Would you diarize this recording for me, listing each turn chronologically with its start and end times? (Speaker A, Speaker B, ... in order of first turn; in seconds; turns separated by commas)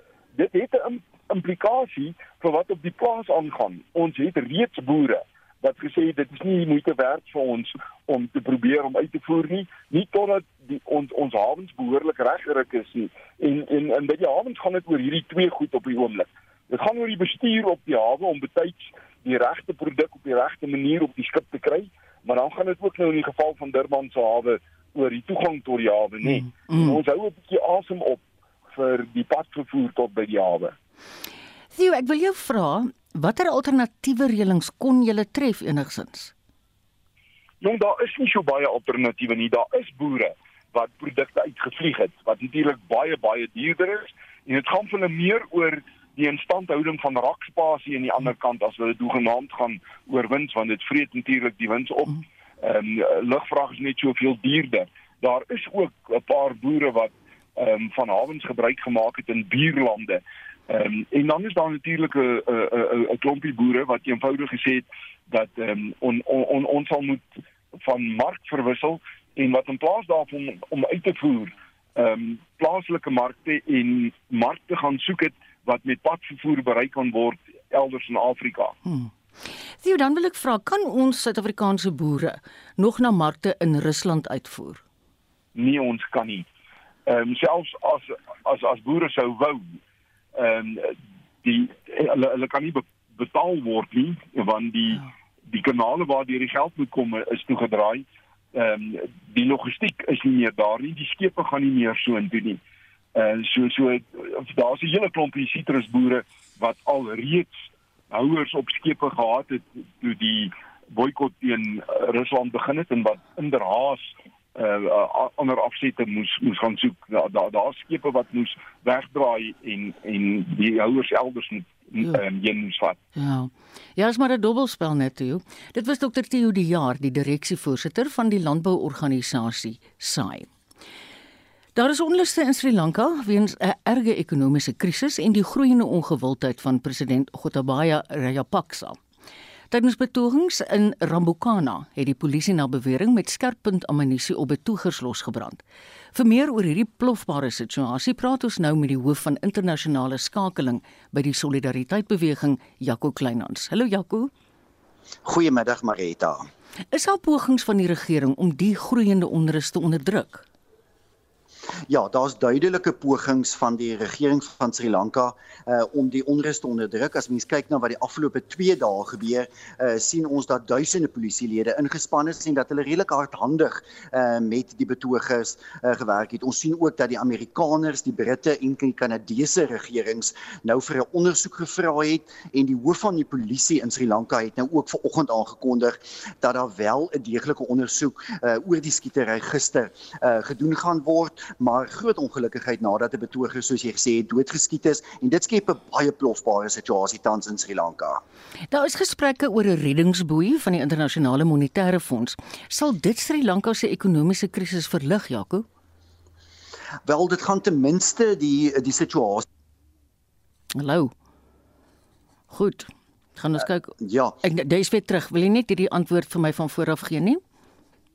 Speaker A: 0.3-30.7, Speaker B: 26.2-27.0, Speaker B: 31.7-36.3, Speaker A: 37.6-78.7, Speaker B: 78.8-79.1, Speaker B: 79.8-84.8, Speaker A: 85.5-86.5, Speaker A: 87.1-89.8, Speaker A: 90.4-102.6, Speaker A: 103.1-107.6, Speaker A: 108.1-123.0, Speaker B: 123.2-130.5, Speaker B: 131.7-138.9, Speaker B: 139.7-145.6, Speaker B: 146.1-154.3, Speaker C: 155.2-156.5, Speaker B: 156.9-160.4, Speaker C: 161.9-198.2, Speaker B: 198.7-205.6, Speaker C: 207.1-209.4, Speaker B: 210.7-211.1, Speaker B: 212.5-213.9, Speaker C: 214.0-214.3, Speaker B: 214.4-217.4